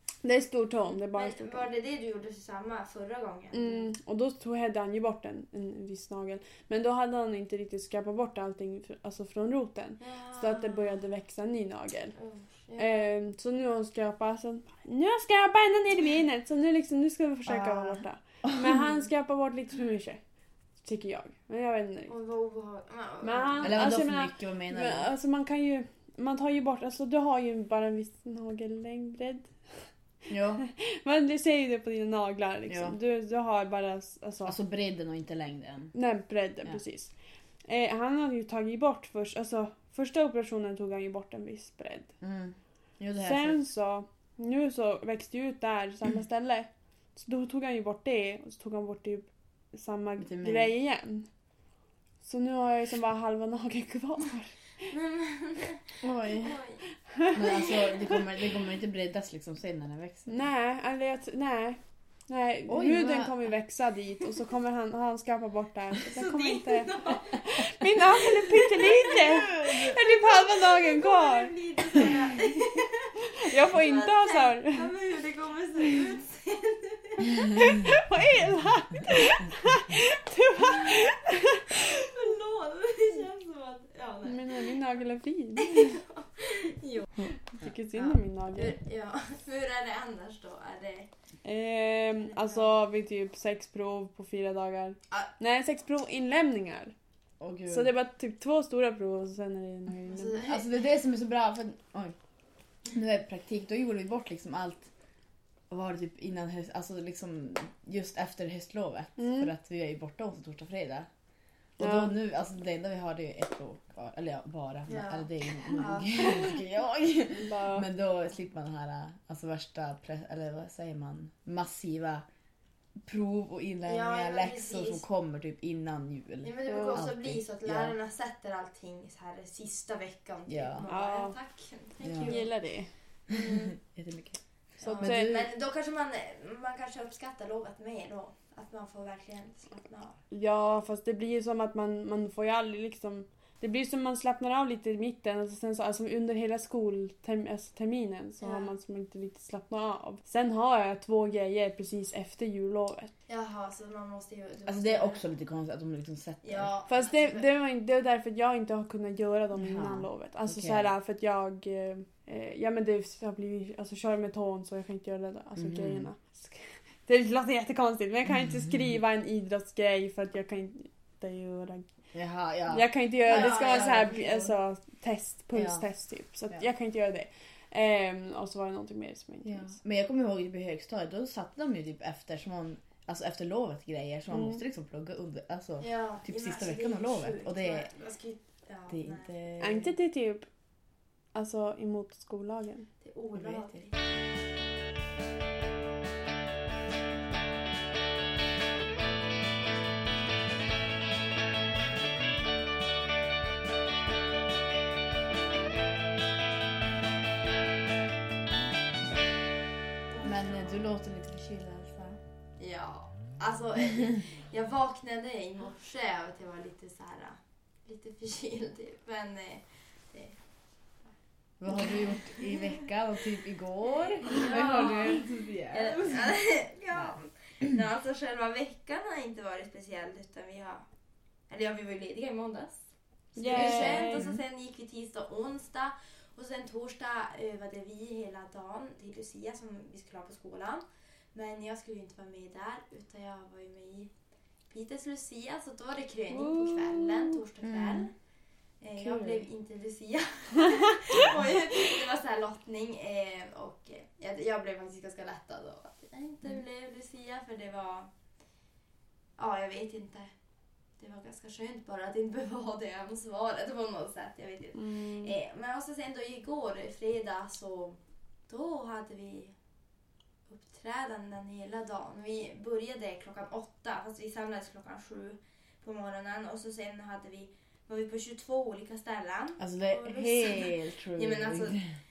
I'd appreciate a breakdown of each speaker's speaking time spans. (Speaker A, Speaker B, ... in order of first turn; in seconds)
Speaker A: 0.2-1.7, 3.5-12.1, 12.8-20.2, 20.8-22.1, 23.2-29.9, 30.6-34.5, 35.9-37.1, 37.6-42.1, 43.2-51.3, 52.2-54.7, 60.3-71.5, 73.4-74.9, 77.3-82.1, 84.2-86.0, 87.5-88.8, 91.4-96.9, 97.7-100.4, 109.2-109.5, 111.8-112.1, 117.4-117.8, 126.7-127.0, 130.9-131.3, 132.2-132.9, 134.8-135.5, 140.3-153.1, 156.9-171.9, 172.7-179.7, 184.3-184.6, 189.6-190.5, 191.3-192.9, 233.3-234.2, 246.3-247.4, 264.7-265.4
Speaker B: 1.1-3.9, 10.0-11.0, 12.2-13.1, 22.1-23.9, 54.9-56.9, 57.5-57.7, 66.1-67.4, 68.2-69.3, 69.9-77.4, 81.7-84.8, 85.6-87.4, 87.9-91.1, 92.2-92.7, 100.1-100.7, 114.9-116.4, 123.8-125.0, 126.4-132.5, 133.3-133.7, 134.8-140.2, 148.4-148.7, 153.3-155.2, 156.4-157.5, 173.2-174.4, 185.8-189.3, 193.0-194.0, 210.1-210.8, 212.6-220.4, 221.7-222.8, 224.0-230.8, 231.5-244.1, 244.7-248.1, 248.8-258.1, 259.4-260.3, 261.0-269.5, 270.5-281.8
Speaker C: 17.4-18.7, 23.6-25.1, 30.3-30.6, 32.7-33.0, 34.5-35.9, 42.2-43.6, 50.2-50.7, 56.0-56.6, 57.3-60.4, 62.7-63.5, 69.1-70.0, 97.4-97.9, 100.4-102.2, 102.9-104.9, 105.7-111.1, 111.8-122.2, 123.0-127.9, 130.5-130.8, 132.0-132.4, 133.3-134.4, 134.9-135.5, 154.7-156.7, 159.5-160.9, 165.6-166.1, 172.1-174.5, 175.5-175.8, 179.4-187.9, 188.9-189.9, 193.4-193.7, 210.2-212.2, 221.6-226.2, 233.5-234.4, 247.6-248.1, 249.1-249.3, 279.6-281.9